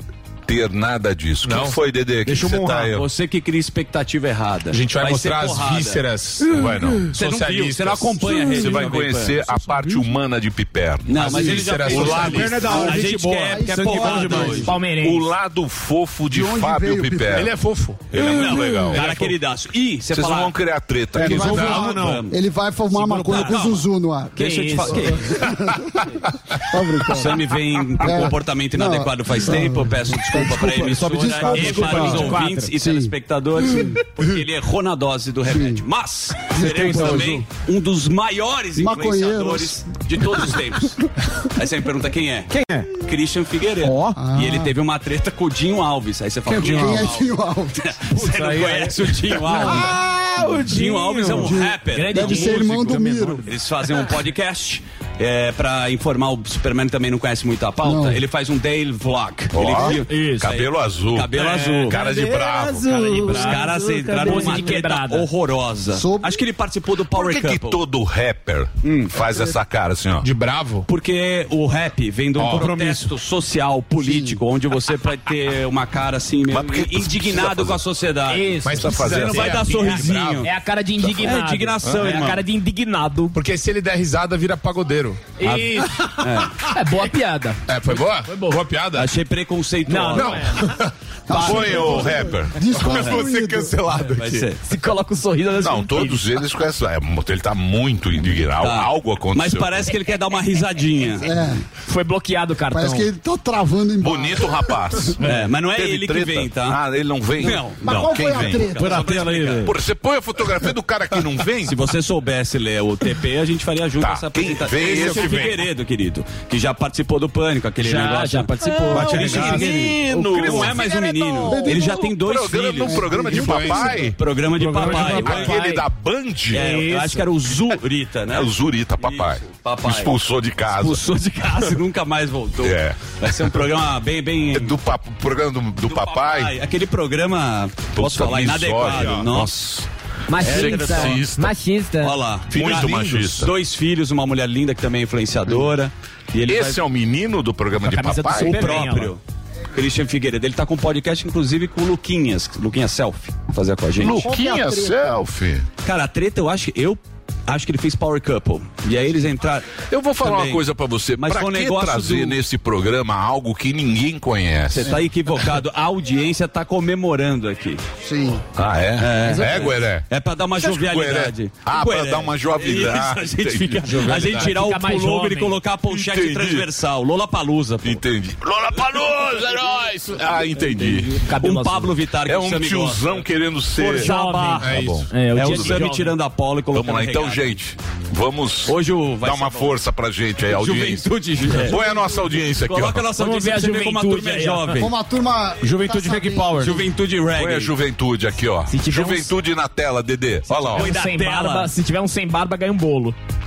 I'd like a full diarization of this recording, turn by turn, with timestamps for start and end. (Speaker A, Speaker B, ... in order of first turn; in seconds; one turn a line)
Speaker A: 0.5-3.0
Speaker B: 1.4-1.8
Speaker C: 2.3-6.0
Speaker D: 2.3-2.7
Speaker B: 4.7-8.5
Speaker A: 6.5-7.1
Speaker C: 7.1-9.4
Speaker A: 8.3-12.8
Speaker C: 11.1-14.7
Speaker B: 11.2-12.5
Speaker D: 12.1-14.8
Speaker E: 12.7-14.7
Speaker F: 14.6-15.3
Speaker A: 14.9-17.6
Speaker E: 16.3-17.5
Speaker B: 17.3-18.2
Speaker A: 18.1-19.3
Speaker C: 18.1-20.6
Speaker A: 20.1-21.9
Speaker C: 21.1-22.3
Speaker D: 21.1-22.3
Speaker E: 21.2-33.1
Speaker B: 21.5-22.1
Speaker D: 23.0-23.7
Speaker C: 23.0-25.4
Speaker F: 24.4-25.3
Speaker C: 27.1-41.0
Speaker D: 30.9-32.4
Speaker F: 31.5-32.7
Speaker E: 33.6-34.0
Speaker E: 35.5-35.8
Speaker E: 36.5-37.5
Speaker D: 36.9-37.2
Speaker E: 38.8-39.8
Speaker C: 41.5-47.3
Speaker D: 42.5-42.9
Speaker D: 43.8-44.2
Speaker E: 44.1-44.7
Speaker E: 46.5-48.0
Speaker D: 46.6-47.0
Speaker C: 47.8-50.0
Speaker D: 48.1-51.5
Speaker E: 49.5-50.0
Speaker C: 50.6-52.7
Speaker E: 51.3-53.5
Speaker F: 51.9-53.2
Speaker D: 52.4-53.4
Speaker C: 53.4-62.0
Speaker E: 57.8-58.2
Speaker A: 59.5-62.9
Speaker F: 60.1-60.5
Speaker D: 62.0-64.5
Speaker C: 62.9-67.8
Speaker F: 63.1-65.3
Speaker E: 65.9-66.4
Speaker A: 67.1-70.3
Speaker C: 68.8-69.1
Speaker B: 70.2-70.8
Speaker C: 70.9-80.5
Speaker B: 72.4-72.7
Speaker D: 72.6-73.0
Speaker E: 74.0-74.4
Speaker A: 76.5-77.8
Speaker F: 78.3-83.3
Speaker B: 78.6-80.3
Speaker A: 78.8-80.4
Speaker C: 81.0-82.4
Speaker A: 81.8-82.2
Speaker B: 83.3-85.3
Speaker F: 85.4-85.9
Speaker C: 85.4-86.6
Speaker F: 86.7-88.6
Speaker B: 87.7-89.1
Speaker C: 88.9-90.5
Speaker F: 89.9-90.7
Speaker B: 90.2-90.7
Speaker E: 91.3-93.8
Speaker C: 91.3-92.2
Speaker A: 91.3-92.7
Speaker C: 92.8-93.2
Speaker B: 92.9-94.3
Speaker C: 94.1-94.6
Speaker F: 94.6-96.2
Speaker A: 95.6-99.9
Speaker C: 98.6-101.4
Speaker E: 101.2-101.7
Speaker F: 101.8-103.1
Speaker E: 102.7-104.8
Speaker A: 104.0-108.8
Speaker C: 105.2-106.8
Speaker C: 107.4-109.7
Speaker E: 107.8-109.1
Speaker D: 108.8-109.7
Speaker A: 109.6-111.8
Speaker C: 111.6-125.7
Speaker A: 114.0-115.5
Speaker B: 115.0-115.6
Speaker F: 117.8-121.7
Speaker D: 118.9-119.7
Speaker A: 118.9-120.9
Speaker E: 121.5-122.1
Speaker A: 121.7-124.2
Speaker E: 122.8-124.0
Speaker B: 123.2-125.5
Speaker A: 124.9-126.7
Speaker F: 125.4-125.7
Speaker C: 126.5-130.1
Speaker F: 126.6-127.3
Speaker A: 128.3-131.0
Speaker C: 130.7-134.8
Speaker A: 132.6-133.0
Speaker A: 134.5-136.5
Speaker C: 135.8-139.7
Speaker A: 138.0-139.9
Speaker F: 140.3-142.2
Speaker A: 140.4-141.5
Speaker C: 140.4-141.3
Speaker C: 142.0-146.8
Speaker A: 142.5-143.5
Speaker A: 146.5-148.9
Speaker F: 147.8-149.1
Speaker C: 148.4-149.2
Speaker C: 149.7-154.3
Speaker A: 154.0-155.7
Speaker E: 154.0-155.1
Speaker C: 155.8-160.7
Speaker A: 159.8-164.9
Speaker C: 161.2-162.4
Speaker C: 164.7-167.8
Speaker E: 168.0-168.4
Speaker A: 168.5-174.4
Speaker C: 169.0-178.0
Speaker F: 169.3-169.8
Speaker F: 174.4-175.6
Speaker A: 175.9-176.7
Speaker A: 177.8-181.2
Speaker C: 180.8-183.2
Speaker F: 181.1-181.9
Speaker A: 182.2-185.8
Speaker C: 183.8-184.7
Speaker F: 183.9-186.2
Speaker B: 184.6-185.1
Speaker C: 185.3-187.6
Speaker A: 186.7-193.1
Speaker C: 188.7-189.8
Speaker C: 190.5-191.9
Speaker C: 192.6-194.9
Speaker F: 193.2-194.8
Speaker E: 194.8-196.8
Speaker D: 195.6-196.8
Speaker C: 196.6-197.7
Speaker A: 197.3-200.9
Speaker F: 198.7-199.3
Speaker F: 200.6-203.2
Speaker C: 200.7-201.7